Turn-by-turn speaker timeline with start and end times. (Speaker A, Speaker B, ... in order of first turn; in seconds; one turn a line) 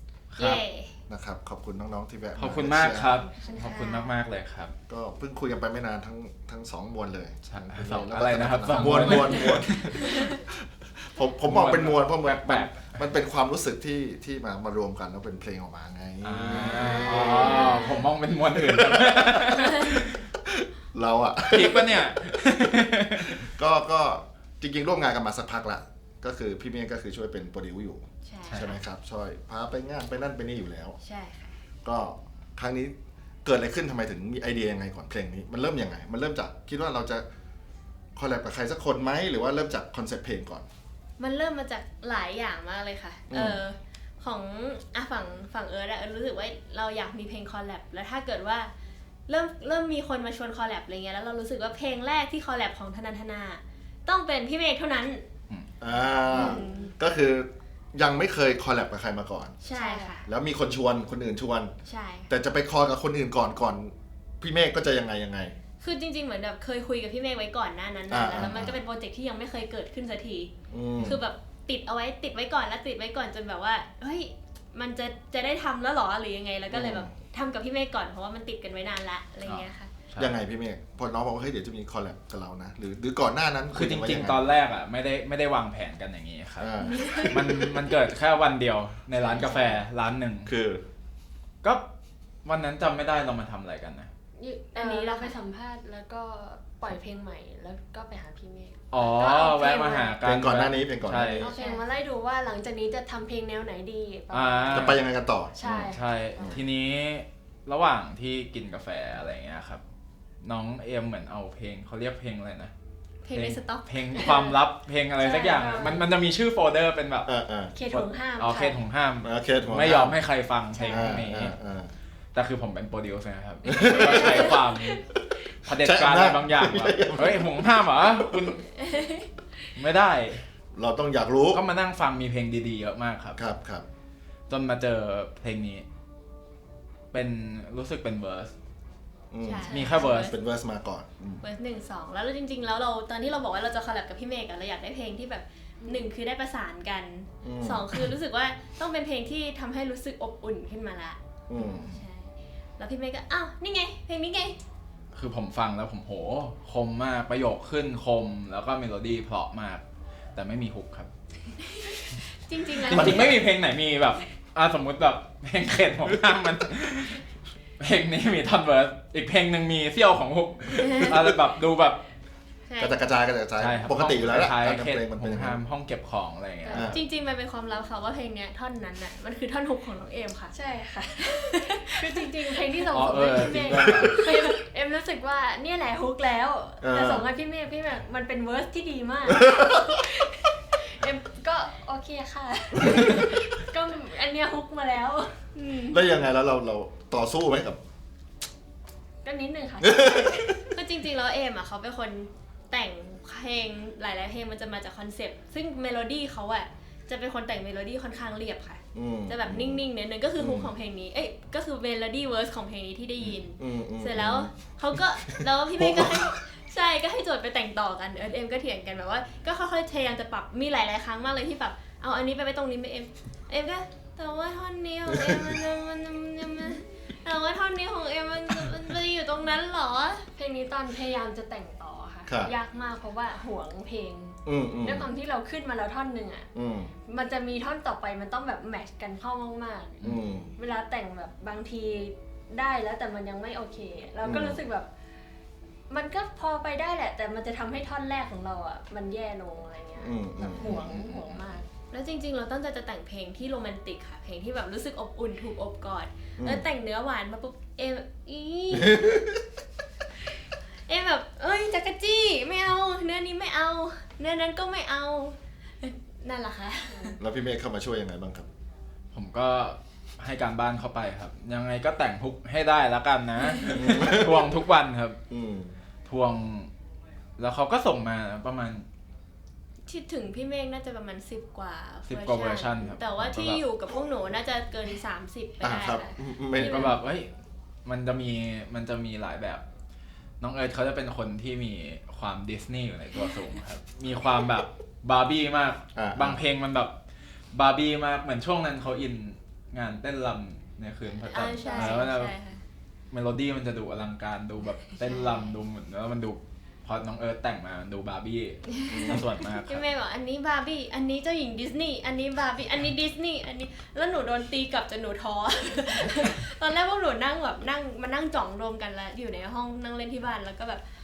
Speaker A: 0.3-0.6
Speaker B: 0.4-1.0
Speaker C: 1.1-3.1
Speaker A: 2.4-4.7
Speaker B: 3.3-4.1
Speaker C: 4.9-17.6
Speaker A: 7.5-10.0
Speaker B: 8.7-10.4
Speaker A: 11.4-12.9
Speaker A: 16.2-20.2
Speaker D: 16.7-18.0
Speaker B: 16.8-18.0
Speaker C: 18.5-31.0
Speaker A: 21.5-23.4
Speaker B: 28.2-28.8
Speaker A: 28.4-28.7
Speaker B: 31.0-31.6
Speaker C: 31.8-37.2
Speaker C: 38.1-40.7
Speaker B: 41.2-48.7
Speaker C: 43.3-43.6
Speaker B: 49.3-55.2
Speaker C: 55.8-59.6
Speaker D: 56.3-56.9
Speaker B: 56.3-56.9
Speaker B: 59.6-60.2
Speaker D: 59.7-60.2
Speaker C: 60.2-61.7
Speaker B: 61.9-62.3
Speaker C: 62.3-65.5
Speaker B: 65.8-79.9
Speaker C: 68.1-68.8
Speaker C: 70.7-71.2
Speaker C: 76.7-77.1
Speaker A: 79.4-80.3
Speaker C: 80.2-84.5
Speaker A: 83.7-86.7
Speaker C: 86.6-87.9
Speaker B: 86.8-87.3
Speaker A: 87.2-90.5
Speaker D: 89.2-89.8
Speaker C: 90.4-90.8
Speaker A: 92.4-94.1
Speaker D: 94.3-100.1
Speaker B: 94.7-95.4
Speaker A: 98.9-101.5
Speaker B: 99.2-100.0
Speaker C: 100.2-101.5
Speaker D: 101.4-105.0
Speaker B: 101.5-101.8
Speaker A: 104.3-105.0
Speaker C: 104.7-106.6
Speaker D: 105.5-106.6
Speaker A: 105.7-109.8
Speaker A: 110.4-112.7
Speaker B: 113.2-114.6
Speaker A: 113.3-117.3
Speaker D: 115.2-116.1
Speaker C: 117.2-117.8
Speaker D: 117.7-118.8
Speaker A: 117.9-121.5
Speaker C: 119.2-120.2
Speaker C: 120.8-121.9
Speaker A: 122.3-125.0
Speaker C: 123.6-124.6
Speaker D: 123.8-124.5
Speaker A: 125.6-128.7
Speaker C: 125.7-128.5
Speaker B: 128.8-129.2
Speaker A: 129.8-130.4
Speaker C: 130.7-131.6
Speaker A: 131.5-133.4
Speaker C: 133.3-133.8
Speaker A: 134.5-135.8
Speaker A: 137.1-138.5
Speaker C: 139.3-141.4
Speaker B: 139.4-140.4
Speaker A: 139.7-140.3
Speaker B: 141.4-154.6
Speaker D: 145.8-146.1
Speaker C: 147.4-148.0
Speaker C: 151.5-151.9
Speaker A: 155.1-159.8
Speaker A: 160.3-161.1
Speaker B: 161.7-163.4
Speaker A: 162.8-167.2
Speaker C: 162.9-163.4
Speaker A: 167.8-172.0
Speaker B: 170.8-171.2
Speaker B: 172.7-173.0
Speaker C: 172.8-175.6
Speaker A: 173.6-177.0
Speaker C: 176.7-177.0
Speaker B: 176.9-180.5
Speaker D: 180.5-195.3
Speaker B: 181.2-184.5
Speaker A: 182.9-184.2
Speaker C: 183.8-184.1
Speaker C: 186.8-187.3
Speaker C: 189.2-190.0
Speaker B: 195.5-196.0
Speaker C: 195.9-197.8
Speaker D: 199.2-200.6
Speaker C: 199.8-200.6
Speaker B: 200.7-230.2
Speaker C: 208.9-209.9
Speaker C: 210.4-210.7
Speaker C: 213.2-216.4
Speaker C: 225.1-225.6
Speaker D: 230.3-236.5
Speaker C: 232.3-232.5
Speaker C: 234.4-235.1
Speaker C: 236.5-236.9
Speaker D: 237.1-240.0
Speaker A: 240.0-240.2
Speaker C: 240.0-240.5
Speaker D: 240.6-244.9
Speaker C: 244.2-244.6
Speaker D: 245.9-251.7
Speaker C: 250.0-251.1
Speaker A: 250.8-251.4
Speaker B: 251.9-259.2
Speaker C: 256.4-256.6
Speaker C: 258.7-259.4
Speaker B: 260.9-267.2
Speaker D: 266.9-267.2
Speaker C: 267.2-268.5
Speaker A: 269.1-275.2
Speaker C: 273.7-274.5
Speaker C: 275.3-275.8
Speaker A: 276.1-276.7
Speaker A: 277.4-278.9
Speaker B: 279.9-286.9
Speaker A: 282.1-283.6
Speaker C: 285.6-286.9
Speaker A: 286.5-287.3
Speaker A: 287.8-289.6
Speaker A: 290.4-296.9
Speaker C: 295.9-296.4
Speaker A: 297.5-302.3
Speaker B: 301.2-302.6
Speaker D: 301.6-302.1
Speaker A: 303.1-309.9
Speaker D: 305.0-305.5
Speaker B: 308.9-320.8
Speaker C: 308.9-309.2